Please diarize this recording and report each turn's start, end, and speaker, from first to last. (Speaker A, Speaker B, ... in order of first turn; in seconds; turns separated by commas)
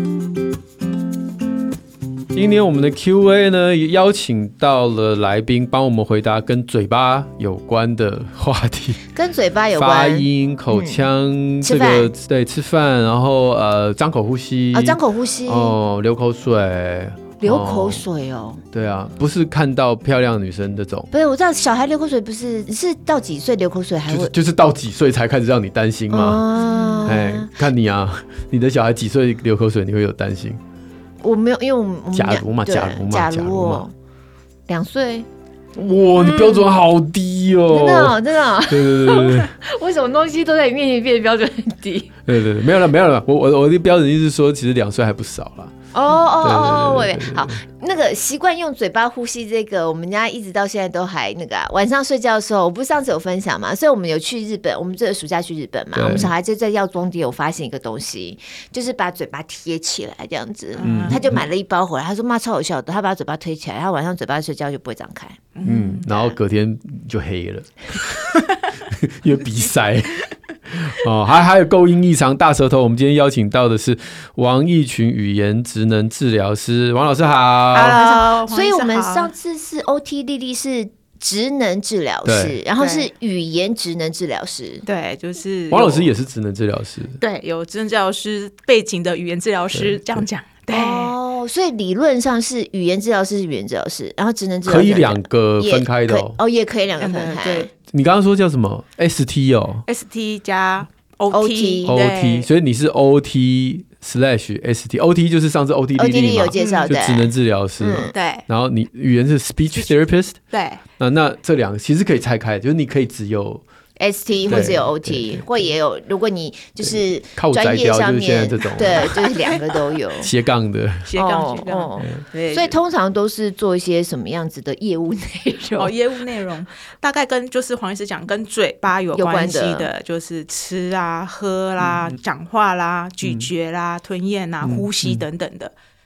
Speaker A: 2.3-9.0, Speaker B: 9.1-11.0, Speaker A: 9.8-18.0, Speaker B: 11.6-12.1, Speaker B: 14.7-15.7, Speaker B: 17.4-18.6, Speaker A: 18.7-21.1, Speaker B: 21.1-24.3, Speaker A: 24.1-26.4, Speaker B: 26.1-27.5, Speaker C: 26.6-27.1, Speaker A: 27.0-30.6, Speaker B: 31.2-33.9, Speaker A: 32.1-33.8, Speaker B: 34.7-35.3, Speaker A: 35.7-39.5, Speaker B: 36.2-36.7, Speaker B: 37.7-42.1, Speaker A: 42.2-45.7, Speaker B: 45.9-65.4, Speaker A: 46.4-47.6, Speaker A: 55.9-56.3, Speaker C: 60.8-61.2, Speaker A: 60.8-61.5, Speaker C: 65.5-66.1, Speaker A: 65.6-78.0, Speaker B: 66.1-66.3, Speaker C: 77.7-79.3, Speaker B: 77.9-84.8, Speaker A: 82.2-82.6, Speaker C: 82.8-83.1, Speaker C: 84.8-86.1, Speaker A: 85.7-87.2, Speaker C: 87.2-91.2, Speaker A: 89.7-90.2, Speaker B: 90.7-97.7, Speaker A: 94.7-96.4, Speaker C: 97.0-97.7, Speaker A: 97.9-99.8, Speaker C: 99.9-102.5, Speaker B: 101.3-102.0, Speaker A: 101.8-110.4, Speaker B: 106.0-108.1, Speaker C: 106.5-106.9, Speaker C: 108.1-108.4, Speaker C: 110.5-110.8, Speaker A: 111.0-113.6, Speaker B: 114.0-120.3, Speaker A: 114.5-115.6, Speaker A: 116.8-119.2, Speaker A: 120.2-121.1, Speaker C: 121.1-122.8, Speaker B: 121.2-125.9, Speaker C: 125.8-135.7, Speaker B: 129.1-129.9, Speaker A: 131.8-132.1, Speaker A: 133.2-133.5, Speaker A: 134.6-135.2